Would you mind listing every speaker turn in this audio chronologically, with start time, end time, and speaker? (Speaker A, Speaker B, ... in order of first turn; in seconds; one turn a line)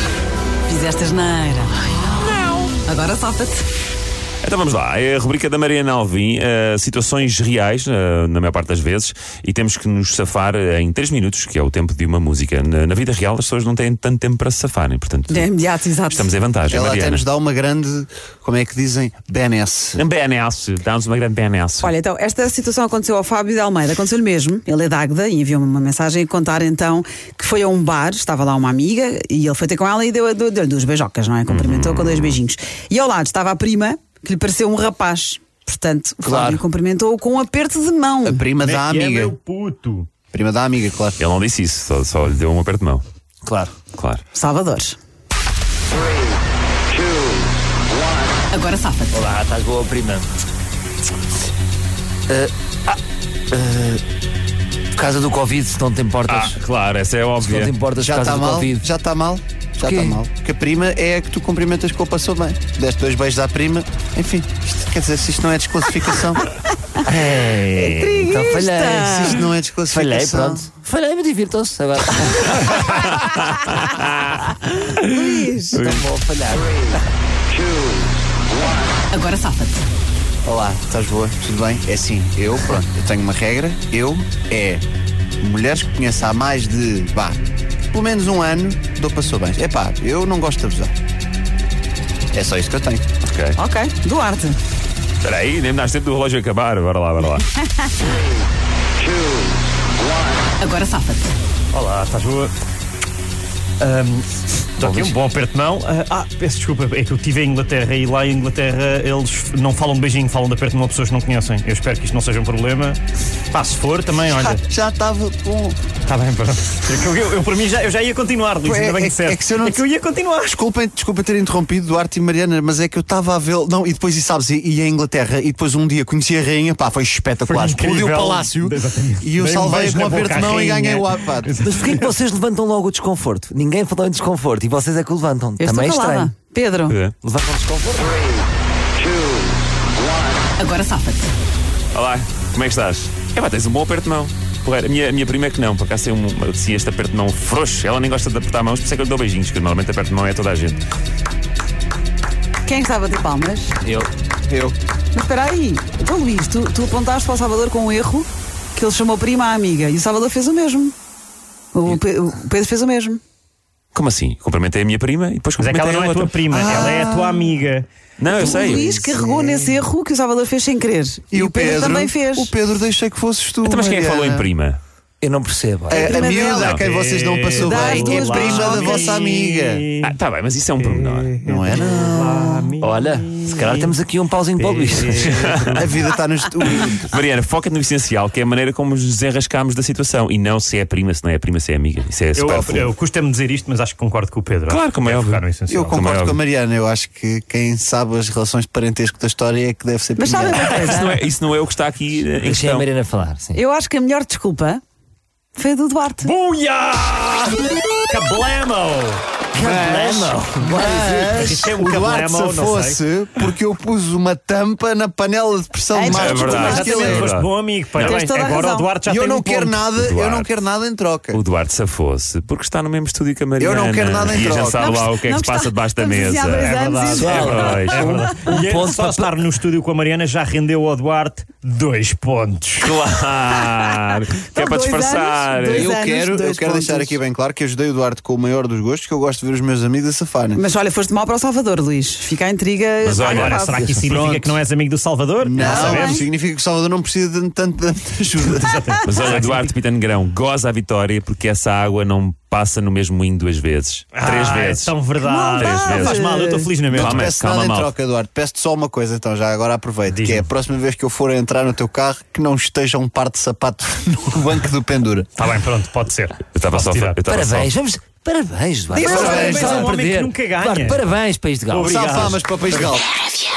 Speaker A: 0.7-2.1
Speaker A: 2.8-3.6
Speaker B: 4.4-15.5
Speaker A: 15.3-16.3
Speaker B: 16.1-17.2
Speaker C: 16.7-20.0
Speaker B: 19.9-21.9
Speaker A: 21.8-38.5
Speaker B: 31.5-32.4
Speaker D: 36.2-36.6
Speaker C: 38.2-39.4
Speaker E: 38.6-40.1
Speaker C: 40.3-41.2
Speaker B: 41.2-43.0
Speaker D: 43.4-43.8
Speaker B: 43.9-44.2
Speaker A: 44.3-45.0
Speaker A: 48.5-49.1
Speaker D: 49.1-50.3
Speaker D: 52.3-53.0
Speaker D: 53.5-54.0
Speaker D: 55.0-56.6
Speaker B: 56.2-57.7
Speaker D: 57.4-58.9
Speaker C: 57.9-66.4
Speaker D: 59.8-60.2
Speaker D: 67.0-72.9
Speaker A: 67.6-69.4
Speaker C: 69.0-70.7
Speaker B: 72.6-76.1
Speaker A: 75.0-75.9
Speaker D: 75.8-77.0
Speaker A: 79.0-79.8
Speaker C: 80.4-84.8
Speaker C: 85.4-87.4
Speaker C: 87.9-90.9
Speaker C: 92.3-93.0
Speaker B: 93.2-93.5
Speaker A: 93.6-94.6
Speaker B: 95.2-97.5
Speaker A: 100.6-101.3
Speaker E: 101.7-102.5
Speaker E: 103.8-113.0
Speaker D: 104.8-105.2
Speaker E: 113.5-114.6
Speaker C: 114.2-115.8
Speaker E: 116.1-120.6
Speaker C: 118.6-119.8
Speaker C: 120.4-131.6
Speaker E: 127.5-132.1
Speaker D: 131.6-136.3
Speaker A: 135.6-137.0
Speaker B: 136.9-137.1
Speaker D: 137.2-138.2
Speaker A: 140.6-141.3
Speaker B: 141.9-150.8
Speaker A: 152.6-153.7
Speaker C: 153.9-154.7
Speaker A: 155.1-160.9
Speaker A: 161.7-163.2
Speaker B: 163.9-166.3
Speaker E: 165.6-167.9
Speaker C: 166.5-167.5
Speaker B: 168.2-168.9
Speaker A: 168.3-172.5
Speaker C: 168.4-169.7
Speaker C: 171.3-174.5
Speaker B: 173.6-174.8
Speaker D: 175.2-176.2
Speaker A: 175.9-176.8
Speaker C: 175.9-179.8
Speaker B: 176.5-176.9
Speaker E: 176.9-180.1
Speaker A: 177.6-179.2
Speaker B: 180.0-181.4
Speaker E: 180.8-184.0
Speaker C: 181.4-182.7
Speaker D: 182.8-185.6
Speaker E: 184.6-185.7
Speaker B: 185.2-186.0
Speaker C: 185.6-187.1
Speaker B: 186.6-192.9
Speaker E: 192.3-196.0
Speaker B: 194.7-196.4
Speaker C: 195.7-200.9
Speaker A: 200.2-201.2
Speaker B: 200.7-202.9
Speaker D: 202.4-203.6
Speaker A: 203.5-204.8
Speaker A: 205.5-206.3
Speaker E: 206.2-213.0
Speaker D: 209.5-211.8
Speaker C: 209.6-217.3
Speaker A: 215.9-217.3
Speaker B: 216.1-218.2
Speaker E: 216.8-219.8
Speaker A: 217.9-218.9
Speaker C: 219.1-221.4
Speaker B: 219.9-220.5
Speaker B: 221.3-228.3
Speaker C: 223.6-224.9
Speaker A: 224.6-228.4
Speaker E: 226.8-232.9
Speaker D: 227.1-229.4
Speaker B: 232.8-235.9
Speaker A: 234.3-237.2
Speaker C: 235.7-240.6
Speaker A: 240.5-243.9
Speaker B: 243.0-243.6
Speaker E: 243.3-246.2
Speaker D: 243.7-244.1
Speaker C: 244.0-244.6
Speaker C: 245.4-248.9
Speaker A: 245.6-246.2
Speaker E: 248.6-249.7
Speaker B: 249.0-254.9
Speaker E: 254.1-257.3
Speaker A: 255.2-256.7
Speaker B: 255.5-256.2
Speaker C: 256.9-265.4
Speaker B: 256.9-257.9
Speaker E: 260.1-260.5
Speaker E: 265.4-267.2
Speaker B: 266.5-267.7
Speaker D: 267.2-272.0
Speaker E: 268.9-271.1
Speaker C: 268.9-269.9
Speaker A: 269.1-269.4
Speaker E: 271.7-272.9
Speaker C: 271.8-273.1